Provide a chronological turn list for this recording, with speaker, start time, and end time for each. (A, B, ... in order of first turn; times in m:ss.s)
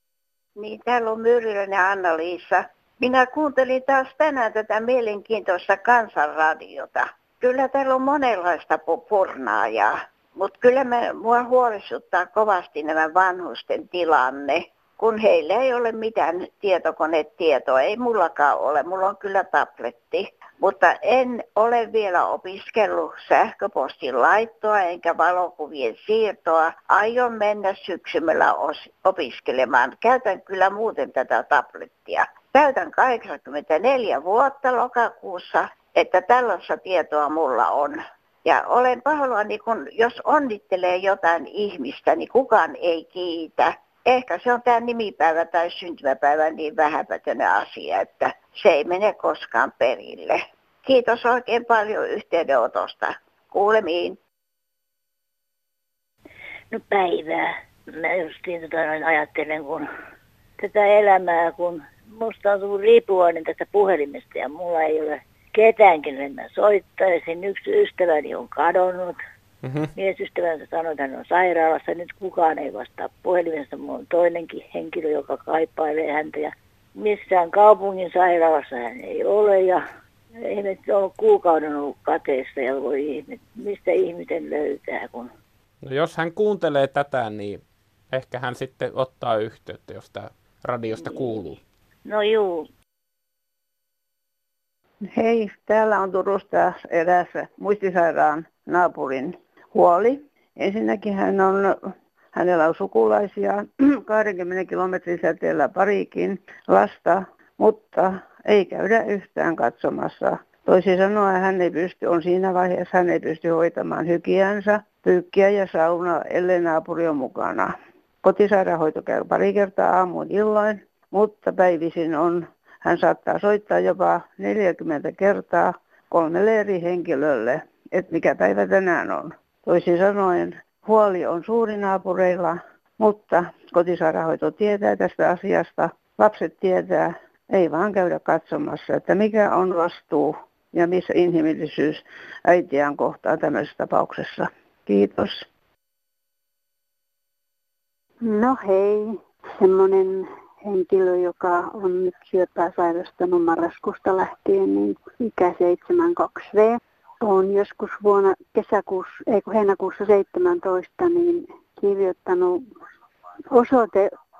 0:00.6-0:54.2 A
0:56.7-0:59.9 B
1:00.6-1:09.2 B
1:09.6-1:09.9 C
1:10.0-1:19.8 B
1:20.4-1:25.3 B
1:25.8-1:31.6 C
1:31.0-1:31.4 B
1:32.0-1:32.7 B
1:35.1-2:25.4 D
2:28.2-2:42.6 E
2:43.5-2:44.1 E